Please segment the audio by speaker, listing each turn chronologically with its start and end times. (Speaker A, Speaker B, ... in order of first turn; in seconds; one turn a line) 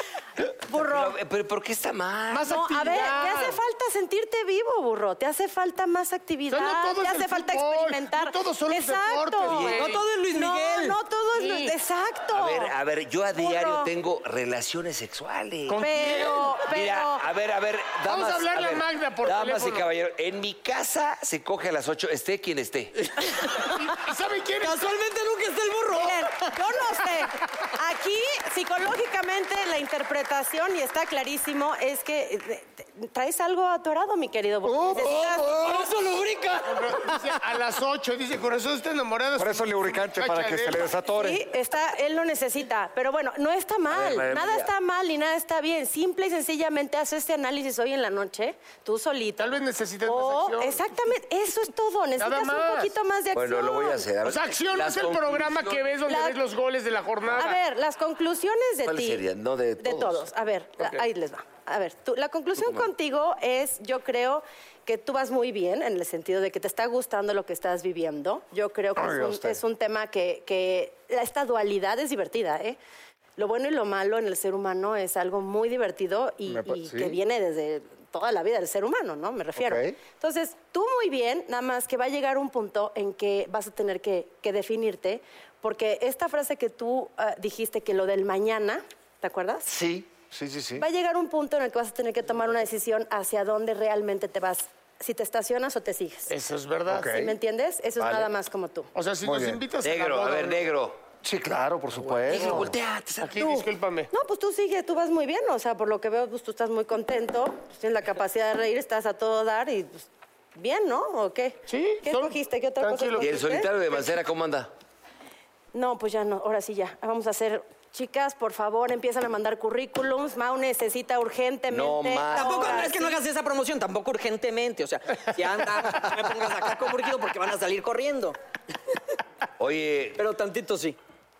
Speaker A: 0.7-1.2
Speaker B: 0.7-2.6
Speaker C: 2.3-3.6
Speaker A: 2.5-12.7
Speaker C: 6.5-10.0
Speaker B: 9.5-10.0
Speaker D: 9.7-11.0
Speaker B: 12.3-15.9
Speaker A: 13.4-13.9
Speaker C: 15.7-16.6
Speaker A: 15.8-17.2
Speaker B: 16.6-23.1
Speaker C: 18.1-19.9
Speaker C: 23.6-24.9
Speaker D: 24.6-26.5
Speaker A: 25.9-35.9
Speaker E: 34.6-35.8
Speaker D: 34.9-37.2
Speaker C: 36.6-40.9
Speaker E: 39.4-41.4
Speaker A: 41.1-54.1
Speaker B: 43.9-44.7
Speaker C: 49.4-50.8
Speaker C: 52.2-52.9
Speaker B: 53.3-55.9
Speaker C: 54.2-57.6
Speaker A: 56.1-56.4
Speaker A: 57.4-59.2
Speaker B: 58.9-60.3
Speaker A: 59.8-72.8
Speaker B: 62.6-62.9
Speaker E: 69.0-69.6
Speaker A: 73.4-89.7
Speaker E: 76.5-77.2
Speaker E: 79.6-80.0
Speaker E: 89.7-90.8
Speaker A: 90.8-96.3
Speaker C: 96.3-97.1
Speaker E: 96.9-97.3
Speaker A: 97.1-98.9
Speaker E: 98.0-98.3
Speaker C: 99.0-100.7
Speaker E: 99.2-99.6
Speaker B: 99.8-101.0
Speaker E: 101.2-102.7
Speaker B: 102.3-103.6
Speaker C: 102.3-102.7
Speaker C: 103.2-104.1
Speaker A: 104.1-113.7
Speaker C: 111.7-113.4
Speaker B: 113.2-114.7
Speaker A: 115.7-123.2
Speaker B: 121.7-122.9
Speaker D: 122.3-128.4
Speaker B: 129.6-130.2
Speaker D: 130.2-131.0